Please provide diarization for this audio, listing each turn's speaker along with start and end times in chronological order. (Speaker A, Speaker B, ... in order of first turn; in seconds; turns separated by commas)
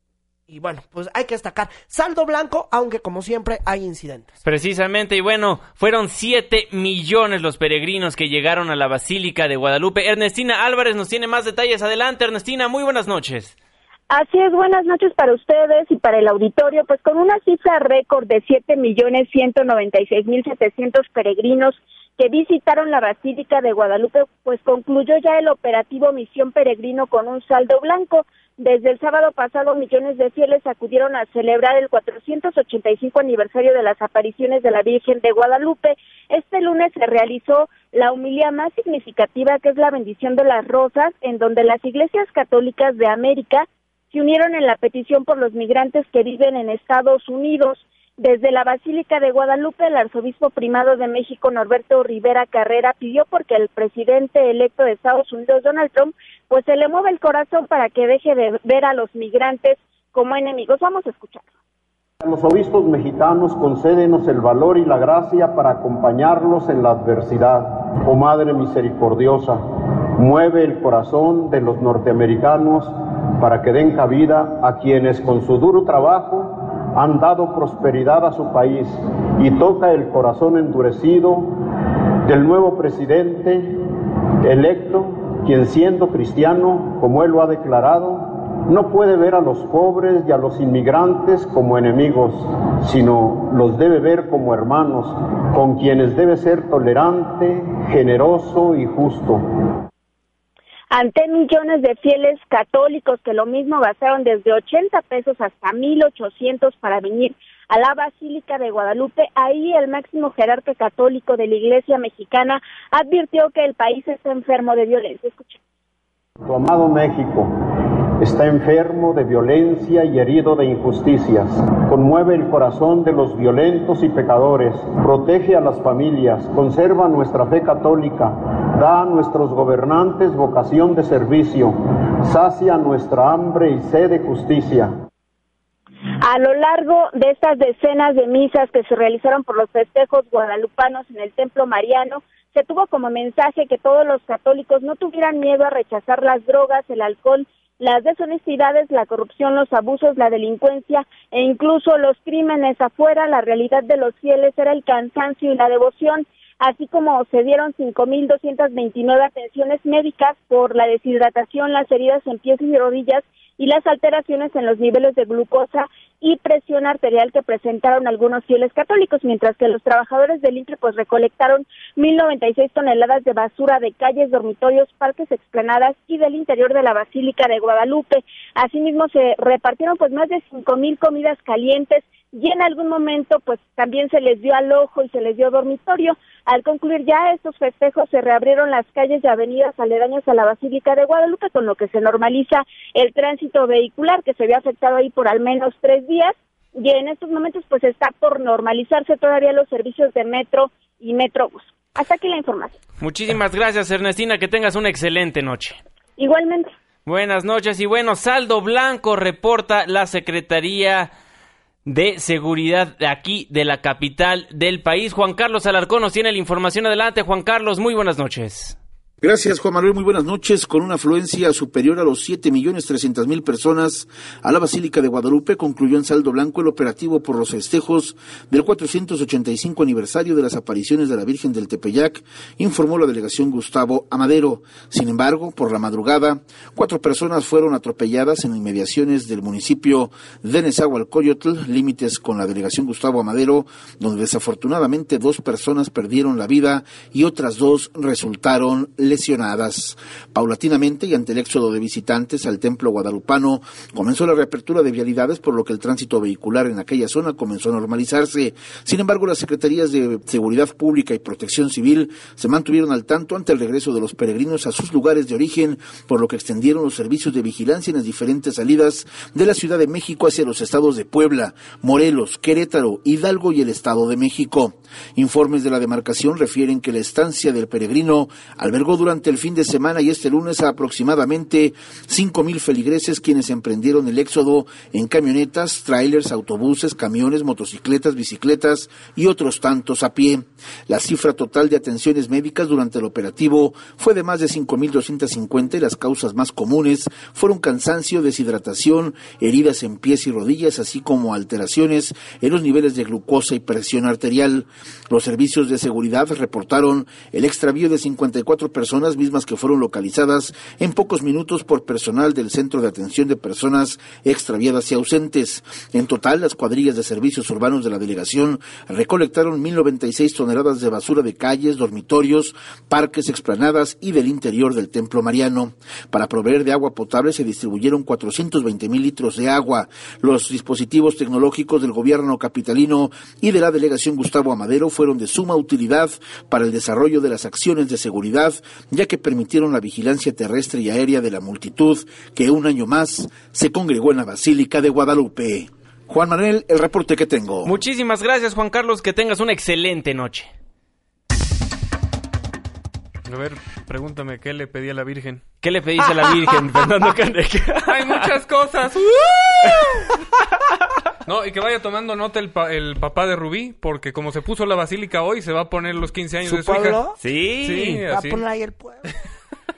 Speaker A: 0.5-4.3, Speaker B: 4.5-13.6, Speaker C: 14.1-61.5, Speaker D: 62.2-69.6, Speaker D: 70.2-81.5, Speaker D: 82.2-83.8, Speaker D: 84.4-99.4, Speaker C: 100.9-115.6, Speaker D: 116.5-117.5, Speaker D: 118.2-134.9, Speaker C: 136.2-202.8, Speaker B: 203.0-205.8, Speaker C: 206.2-206.7, Speaker B: 207.1-211.1, Speaker B: 211.9-218.8, Speaker E: 219.2-347.7, Speaker B: 347.6-350.5, Speaker F: 353.3-355.4, Speaker B: 355.6-358.3, Speaker F: 357.9-360.1, Speaker F: 361.3-367.0, Speaker A: 366.4-367.2, Speaker B: 367.2-368.0, Speaker F: 367.6-368.4, Speaker A: 368.1-369.0